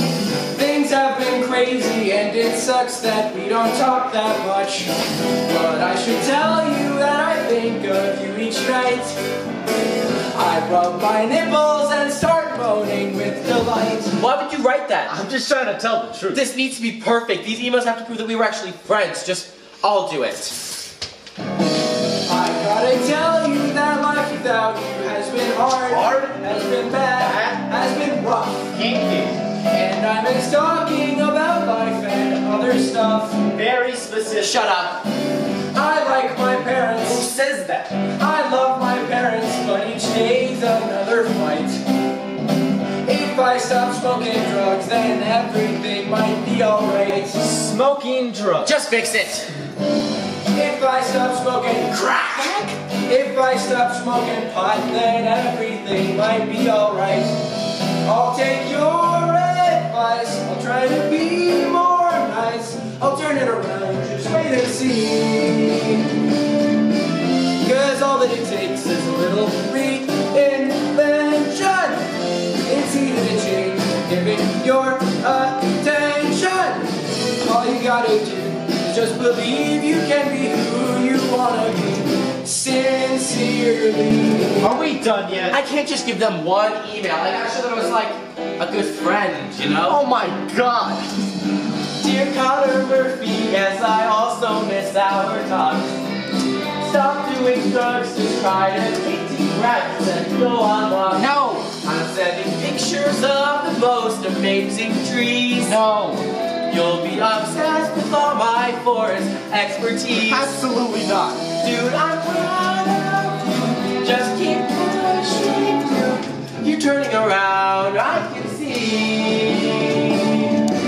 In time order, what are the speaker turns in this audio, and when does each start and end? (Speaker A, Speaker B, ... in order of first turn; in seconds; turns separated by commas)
Speaker A: 0.5-9.2, Speaker A: 10.3-14.2, Speaker B: 14.2-15.2, Speaker C: 15.1-16.4, Speaker B: 16.3-20.6, Speaker A: 22.2-28.7, Speaker B: 25.9-26.3, Speaker C: 28.7-29.4, Speaker A: 29.6-33.4, Speaker C: 33.5-34.6, Speaker B: 34.4-35.0, Speaker A: 35.7-37.3, Speaker B: 37.0-37.9, Speaker A: 38.2-41.8, Speaker A: 43.0-47.5, Speaker C: 47.4-48.7, Speaker B: 48.6-49.5, Speaker A: 50.5-57.4, Speaker A: 58.0-66.1, Speaker A: 67.6-84.7, Speaker C: 84.6-85.6, Speaker B: 85.5-90.0, Speaker C: 89.9-91.1, Speaker B: 92.0-95.9, Speaker B: 96.8-105.8, Speaker C: 101.2-101.7, Speaker C: 105.7-106.3, Speaker B: 106.7-110.5, Speaker C: 110.1-111.5, Speaker B: 111.5-120.7